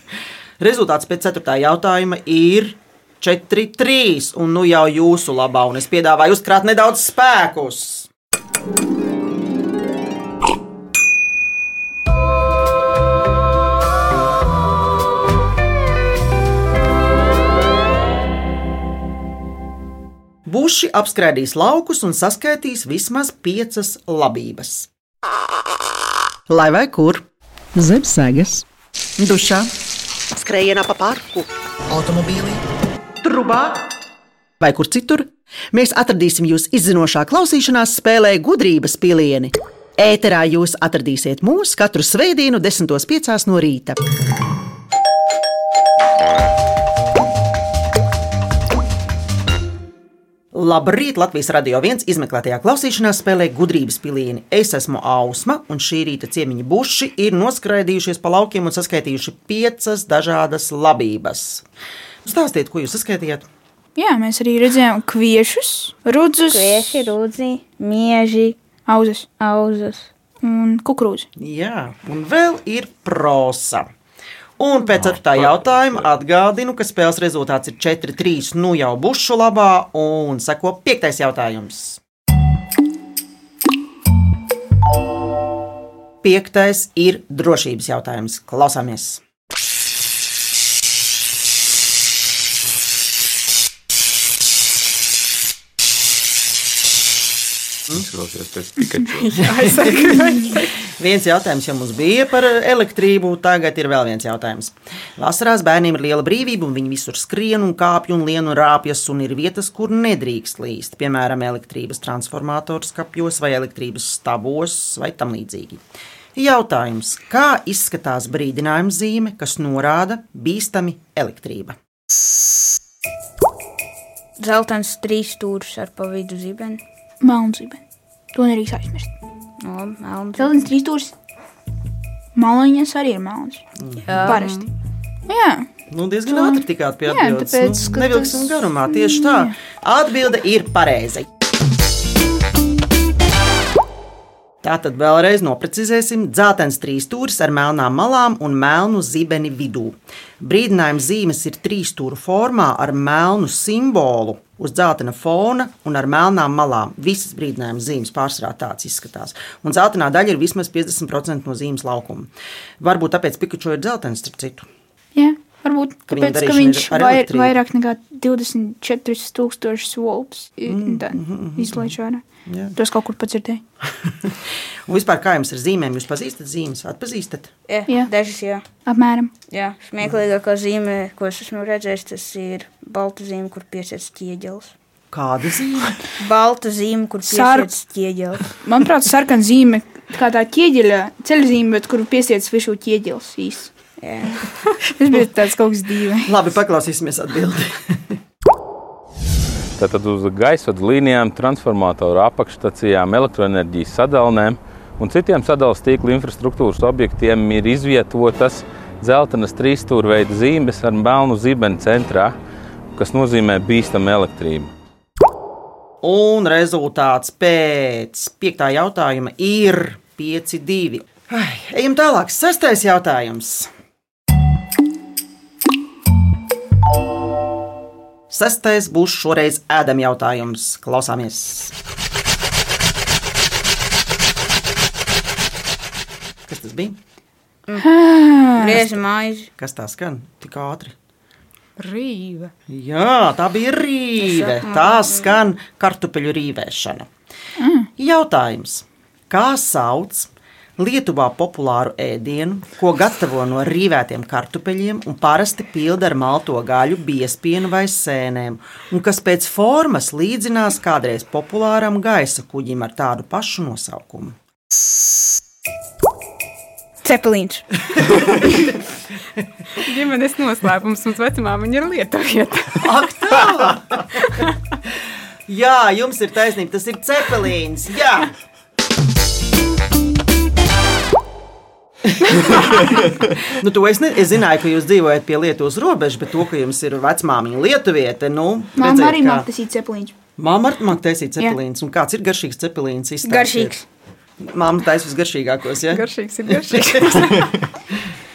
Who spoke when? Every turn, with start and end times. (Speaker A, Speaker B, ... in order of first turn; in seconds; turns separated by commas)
Speaker A: 0.6-8.1, Speaker A: 20.5-24.9, Speaker A: 26.5-27.2, Speaker A: 27.8-28.6, Speaker A: 29.2-29.7, Speaker A: 30.4-32.6, Speaker A: 33.2-33.8, Speaker A: 34.6-44.0, Speaker A: 50.5-61.6, Speaker A: 62.2-63.5, Speaker B: 64.0-67.1, Speaker C: 66.5-68.6, Speaker B: 68.9-69.3, Speaker C: 69.4-70.1, Speaker B: 70.4-71.3, Speaker A: 71.4-73.9, Speaker A: 74.6-82.0, Speaker D: 74.9-76.1, Speaker A: 86.2-89.2, Speaker D: 97.9-99.9, Speaker E: 99.2-100.7, Speaker A: 101.0-115.8, Speaker A: 116.4-121.8, Speaker C: 124.4-126.8, Speaker B: 127.2-127.8, Speaker B: 128.3-129.1, Speaker C: 129.6-130.6, Speaker B: 130.4-131.1, Speaker B: 132.3-133.6, Speaker A: 133.8-134.3, Speaker C: 134.1-134.6, Speaker B: 134.2-134.6, Speaker E: 134.3-134.7, Speaker B: 135.3-135.7, Speaker A: 135.9-141.3, Speaker B: 136.3-139.5, Speaker A: 144.6-162.3, Speaker A: 162.8-164.7, Speaker B: 165.2-172.2, Speaker A: 166.1-167.6, Speaker A: 170.7-171.9, Speaker A: 172.5-172.8, Speaker B: 172.8-173.6, Speaker A: 174.1-177.5, Speaker C: 177.7-178.6, Speaker B: 178.9-179.3, Speaker C: 179.5-184.7, Speaker A: 185.1-186.0, Speaker C: 186.2-188.4, Speaker B: 187.2-187.7, Speaker B: 188.6-193.7, Speaker C: 194.0-194.5, Speaker B: 194.9-196.3, Speaker A: 196.3-198.1, Speaker F: 199.8-212.3, Speaker F: 212.9-214.7, Speaker A: 216.0-223.7, Speaker A: 228.3-231.7, Speaker A: 236.5-237.0, Speaker B: 237.8-238.9, Speaker C: 238.6-239.5, Speaker A: 239.6-240.9, Speaker E: 241.8-242.5, Speaker A: 242.7-247.1, Speaker C: 244.2-245.4, Speaker B: 247.6-247.9, Speaker A: 248.0-264.4, Speaker C: 267.0-267.6, Speaker E: 269.8-272.9, Speaker A: 272.8-274.2, Speaker A: 275.5-278.3, Speaker A: 282.1-282.9, Speaker A: 283.5-289.5, Speaker B: 288.8-290.1, Speaker A: 290.4-293.8, Speaker C: 293.2-293.8, Speaker A: 294.4-297.4, Speaker E: 295.9-297.5